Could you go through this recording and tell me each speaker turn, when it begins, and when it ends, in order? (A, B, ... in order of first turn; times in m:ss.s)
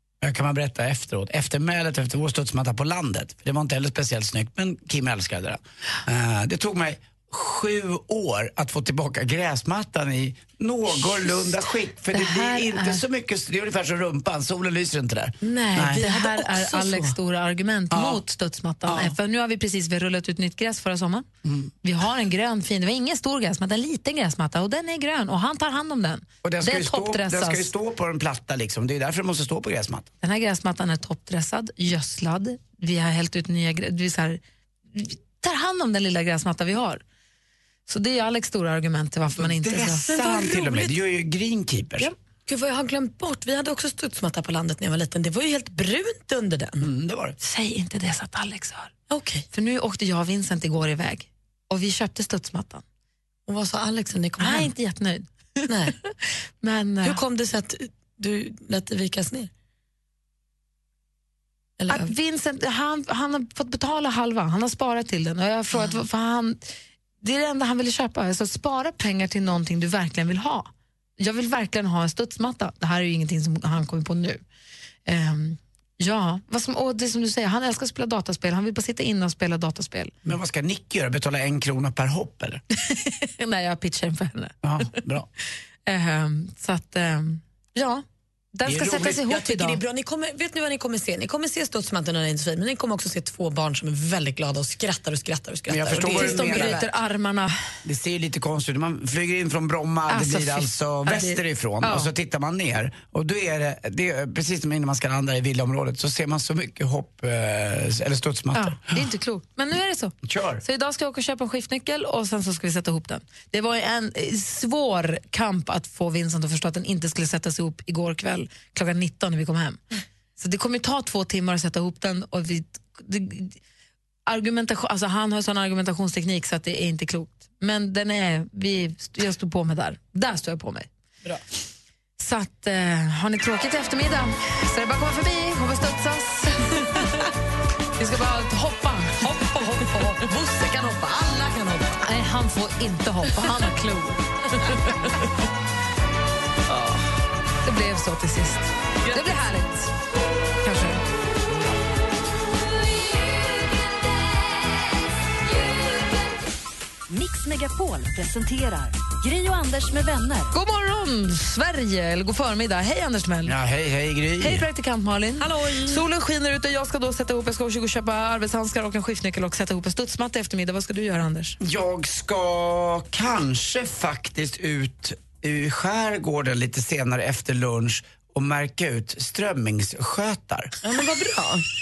0:00.2-0:16.0 A
0:12.1-0:13.0 B
0:15.4-0:17.2 C
0:15.9-0:21.3 B
0:17.9-0:18.2 A
0:18.8-0:19.1 A
0:21.4-0:21.7 A
0:21.8-0:27.7 B
0:26.4-0:30.1 A
0:30.2-0:34.4 B
0:34.9-0:37.0 B
0:37.9-0:40.2 B
0:39.3-0:42.1 A
0:40.1-0:40.9 C
0:42.4-0:46.9 C
0:46.8-0:47.4 A
0:47.4-0:48.9 B
0:49.1-0:49.4 C
0:49.5-0:52.8 B
0:53.5-0:54.7 C
0:54.4-0:55.7 B
0:55.7-0:56.0 C
0:56.6-0:57.2 B
0:57.0-0:59.5 C
1:01.8-1:02.1 C
1:01.9-1:14.4 B
1:15.0-1:20.1 B
1:20.2-1:22.6 A
1:22.8-1:24.5 B
1:24.6-1:25.3 A
1:25.8-1:29.8 B
1:28.6-1:29.2 A
1:29.1-1:36.9 C
1:35.7-1:36.8 A
1:36.0-1:37.5 B
1:37.8-1:48.9 A
1:40.1-1:42.1 B
1:48.5-1:59.8 B
1:50.2-1:50.6 A
2:00.4-2:03.6 B
2:04.3-2:10.9 B
2:12.2-2:17.2 B
2:18.0-2:20.2 B
2:20.2-2:22.0 C
2:22.0-2:24.2 B
2:24.6-2:25.1 C
2:26.7-2:27.0 B
2:27.6-2:29.9 B
2:29.0-2:29.4 C
2:30.6-2:31.0 B
2:37.1-2:40.5 D
2:40.5-2:43.5 B
2:43.4-2:44.6 A
2:44.4-2:51.6 B
2:45.4-2:46.0 C
2:51.6-3:00.7 A
3:00.8-3:01.6 B